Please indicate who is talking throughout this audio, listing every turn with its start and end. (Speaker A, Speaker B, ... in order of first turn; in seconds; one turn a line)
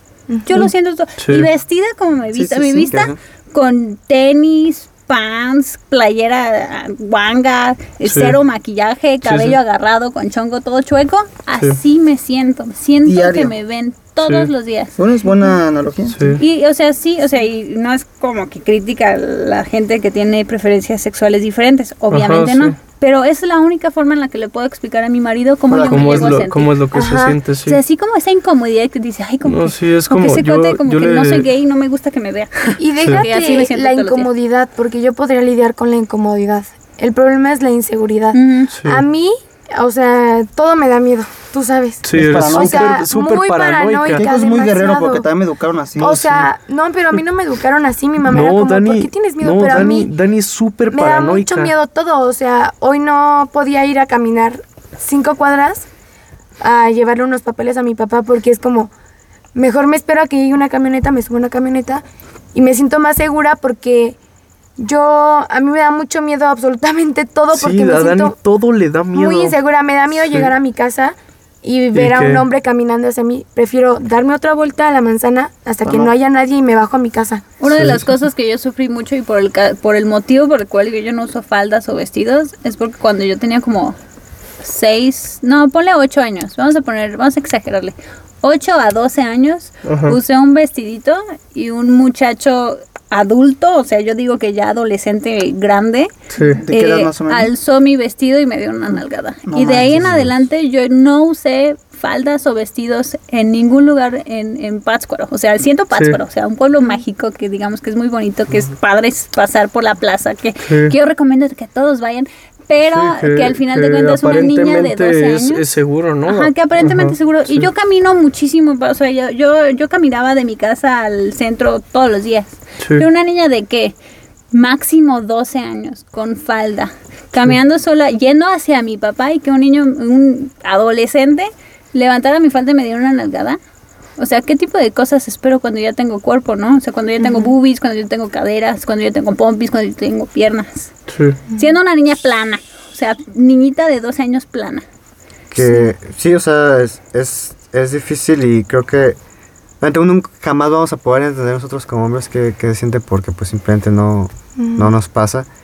Speaker A: 0.3-0.7
Speaker B: 0.4-15.0
Speaker C: 1.2-1.5
Speaker D: 2.4-3.2
Speaker C: 8.1-8.4
Speaker C: 9.2-9.6
Speaker E: 13.0-13.5
Speaker C: 14.2-14.5
Speaker E: 15.0-16.2
Speaker C: 16.1-16.4
Speaker B: 16.4-26.8
Speaker C: 22.1-22.7
Speaker E: 25.7-26.4
Speaker C: 25.9-27.8
Speaker A: 26.9-27.4
Speaker B: 27.6-34.3
Speaker C: 29.4-31.5
Speaker A: 32.8-45.3
Speaker B: 38.3-38.7
Speaker C: 38.7-39.0
Speaker C: 42.0-44.2
Speaker E: 42.1-42.9
Speaker E: 44.2-46.4
Speaker A: 46.0-50.1
Speaker C: 46.0-46.4
Speaker C: 48.3-51.7
Speaker A: 50.9-55.9
Speaker A: 56.6-58.9
Speaker A: 59.5-64.2
Speaker A: 64.8-68.3
Speaker C: 67.5-69.5
Speaker A: 69.1-77.4
Speaker C: 71.9-72.5
Speaker E: 75.8-76.1
Speaker B: 77.6-84.0
Speaker C: 77.7-78.1
Speaker B: 84.6-96.1
Speaker C: 89.8-90.2
Speaker C: 96.3-96.6
Speaker E: 96.6-97.5
Speaker B: 96.7-115.7
Speaker E: 99.5-100.3
Speaker C: 110.7-110.9
Speaker C: 112.9-117.7
Speaker B: 116.2-123.9
Speaker C: 122.8-123.0
Speaker B: 124.5-133.6
Speaker B: 134.2-140.9
Speaker A: 137.2-137.5
Speaker C: 141.1-141.4
Speaker B: 141.5-144.8
Speaker D: 145.5-149.2
Speaker A: 145.6-145.9
Speaker D: 149.8-155.5
Speaker A: 154.6-154.9